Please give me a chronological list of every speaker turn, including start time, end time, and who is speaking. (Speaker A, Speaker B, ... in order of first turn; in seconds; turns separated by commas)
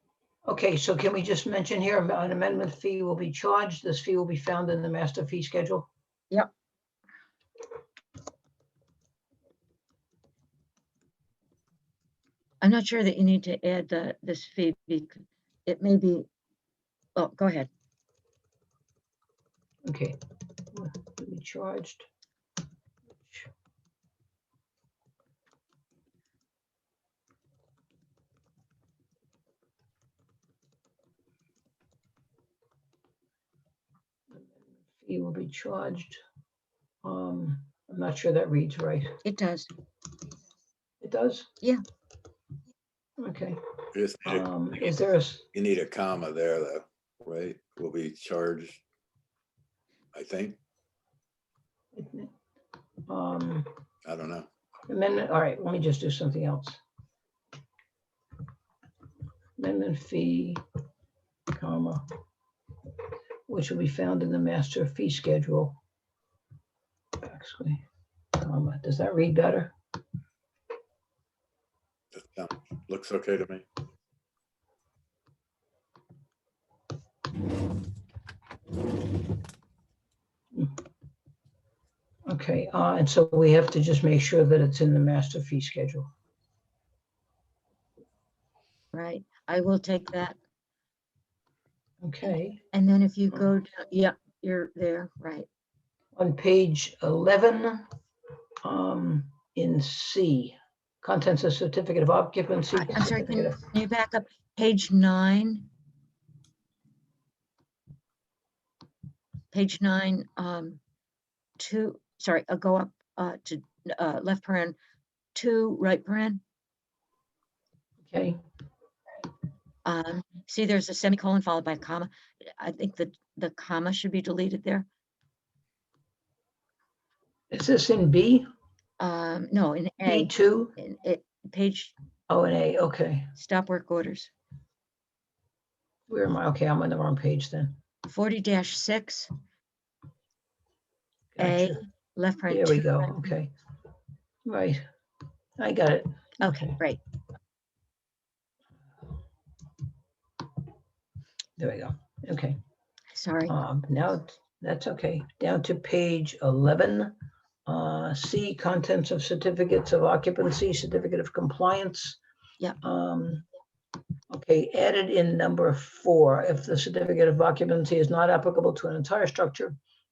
Speaker A: 0.5-5.9, Speaker B: 12.6-16.3, Speaker B: 17.2-17.7, Speaker A: 19.9-20.2, Speaker A: 20.7-22.1, Speaker A: 23.2-23.5, Speaker A: 34.3-36.2, Speaker A: 37.0-39.2, Speaker B: 39.2-39.7, Speaker A: 41.0-41.5, Speaker A: 43.2-43.6, Speaker C: 43.9-44.5, Speaker A: 44.2-45.5, Speaker C: 45.5-48.8, Speaker C: 50.1-50.6, Speaker A: 51.9-52.3, Speaker A: 53.1-53.7, Speaker C: 54.0-54.5, Speaker A: 54.9-56.8, Speaker A: 59.6-60.6, Speaker A: 61.5-62.0, Speaker A: 63.5-65.8, Speaker A: 67.2-67.8, Speaker A: 68.4-69.8, Speaker C: 72.1-73.6, Speaker A: 82.3-86.1, Speaker B: 88.9-90.4, Speaker A: 92.0-92.6, Speaker B: 92.3-95.5, Speaker A: 96.2-97.9, Speaker A: 98.6-103.7, Speaker B: 102.8-105.7, Speaker B: 109.5-110.8, Speaker B: 111.6-114.8, Speaker B: 115.3-116.4, Speaker A: 118.0-118.4, Speaker B: 119.8-124.9, Speaker A: 127.5-128.5, Speaker B: 129.0-131.9, Speaker A: 130.1-130.8, Speaker A: 132.3-133.3, Speaker B: 133.4-134.3, Speaker A: 136.1-137.8, Speaker B: 138.1-139.3, Speaker A: 141.3-141.8, Speaker B: 141.4-143.2, Speaker A: 142.5-143.5, Speaker A: 144.5-144.8, Speaker A: 145.6-146.1, Speaker B: 146.4-147.0, Speaker A: 151.6-152.6, Speaker B: 153.1-153.6, Speaker A: 153.5-157.2, Speaker A: 157.7-162.2, Speaker A: 162.8-163.5, Speaker A: 164.3-169.8